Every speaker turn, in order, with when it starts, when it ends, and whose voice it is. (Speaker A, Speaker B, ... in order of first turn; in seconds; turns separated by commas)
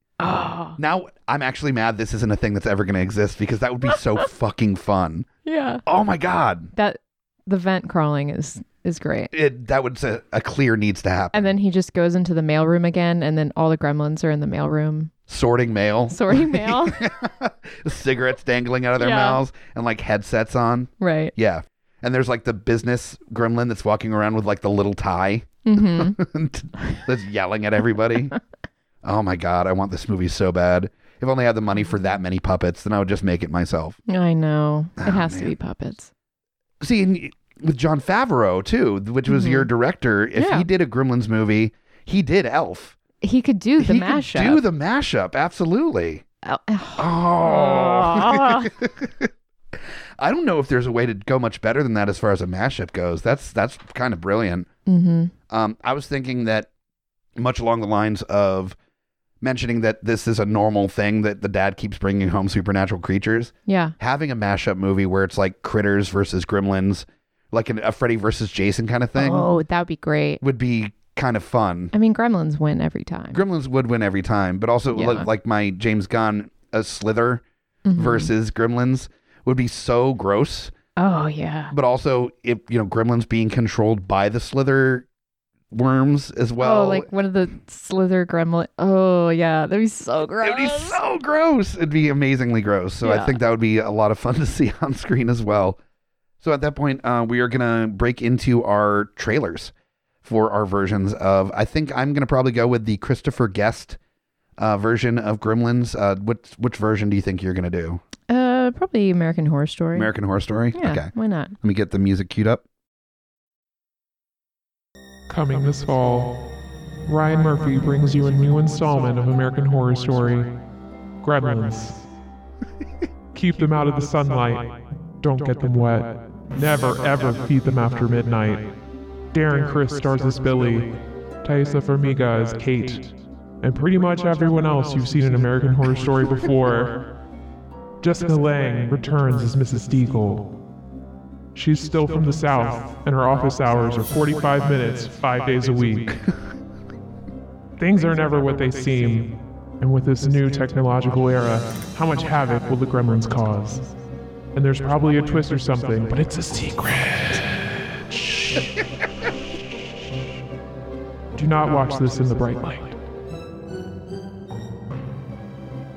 Speaker A: 0.2-0.8, Speaker B: 0.8-5.3, Speaker A: 5.5-5.8, Speaker B: 5.8-6.7, Speaker A: 6.8-9.3, Speaker B: 9.3-11.5, Speaker A: 11.3-15.1, Speaker B: 15.3-28.4, Speaker A: 16.1-17.0, Speaker A: 19.0-19.4, Speaker A: 21.0-21.3, Speaker A: 25.6-26.2, Speaker B: 29.0-34.0, Speaker A: 31.8-32.1, Speaker A: 34.1-36.1, Speaker B: 35.0-35.5, Speaker B: 36.8-43.0, Speaker A: 39.3-39.7, Speaker A: 40.4-40.7, Speaker A: 43.2-44.6, Speaker B: 43.8-46.2, Speaker A: 46.4-48.7, Speaker B: 47.0-49.3, Speaker B: 50.2-54.7, Speaker A: 54.9-55.3, Speaker B: 55.5-56.7, Speaker B: 57.4-58.8, Speaker B: 59.4-69.5, Speaker A: 63.7-64.0, Speaker A: 69.2-70.4, Speaker B: 70.4-71.9, Speaker A: 71.9-73.4, Speaker B: 73.3-77.4, Speaker A: 74.9-75.3, Speaker A: 77.8-78.3, Speaker B: 78.0-80.7, Speaker A: 81.0-81.7, Speaker B: 81.7-85.0, Speaker B: 85.7-87.1, Speaker A: 86.6-91.0, Speaker B: 90.4-95.8, Speaker A: 93.0-93.4, Speaker B: 96.4-99.7, Speaker B: 100.2-104.0, Speaker B: 104.6-108.0, Speaker A: 108.3-110.1, Speaker B: 110.0-112.6, Speaker A: 110.7-111.5, Speaker C: 115.3-116.5, Speaker C: 117.1-120.6, Speaker C: 121.2-122.0, Speaker C: 123.3-128.8, Speaker C: 129.3-137.1, Speaker C: 138.0-140.6, Speaker C: 141.5-146.2, Speaker C: 147.8-153.9, Speaker C: 154.6-157.5, Speaker C: 161.3-162.9